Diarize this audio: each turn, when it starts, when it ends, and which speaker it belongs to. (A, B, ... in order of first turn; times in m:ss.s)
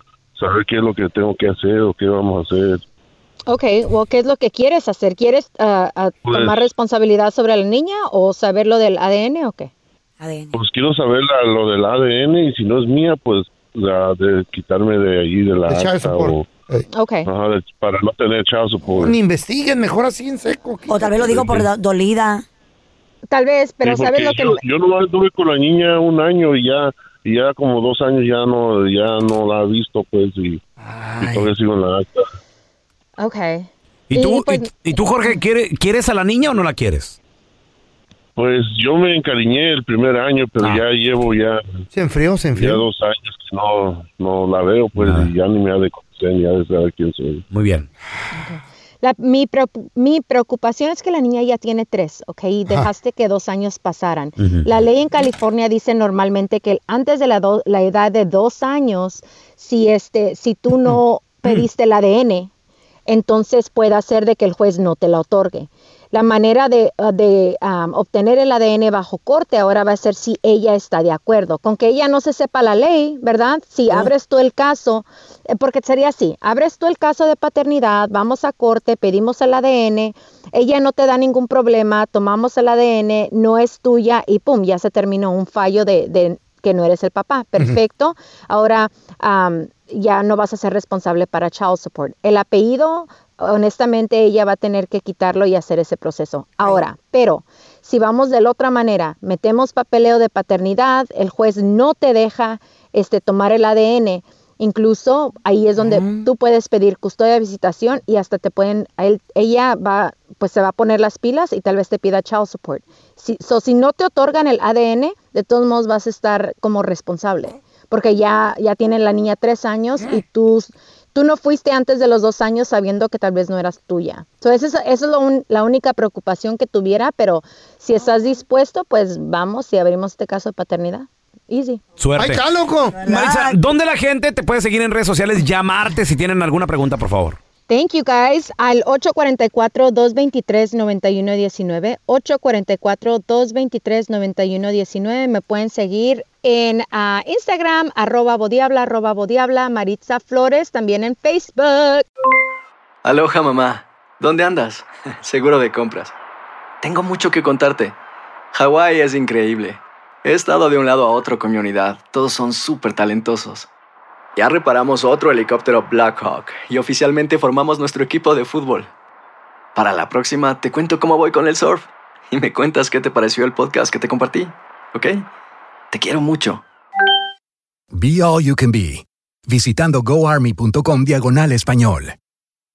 0:00.4-0:02.8 A
0:03.5-0:09.7 B
0:06.2-0:06.6 A
0:10.2-0:10.5 C
0:10.5-0:16.5 A
0:15.7-0:16.8 D
0:16.9-0:17.3 B
0:17.2-0:19.2 A
0:19.0-0:21.6 D
0:20.9-0:22.4 C
0:21.3-0:21.6 A
0:23.3-0:24.6 B
0:23.8-0:30.6 A
0:30.8-0:31.5 D
0:31.2-0:32.2 A
0:33.2-0:35.3 B
0:34.1-0:37.2 E
0:38.4-0:41.8 A
0:40.6-0:40.8 E
0:41.9-0:42.8 D
0:42.5-0:47.4 A
0:44.9-0:45.3 E
0:47.5-0:47.9 E
0:48.3-1:02.5 B
0:54.4-0:54.7 E
1:03.1-2:11.8 B
1:45.8-1:46.3 D
2:12.0-2:12.4 E
2:12.2-2:13.0 D
2:12.9-2:13.6 C
2:13.0-2:17.4 E
2:17.7-2:32.0 B
2:33.0-2:36.1 F
2:36.8-2:37.9 F
2:38.5-2:43.7 F
2:44.4-2:48.9 F
2:49.7-2:55.2 F
2:55.9-2:56.6 F
2:57.9-3:02.1 G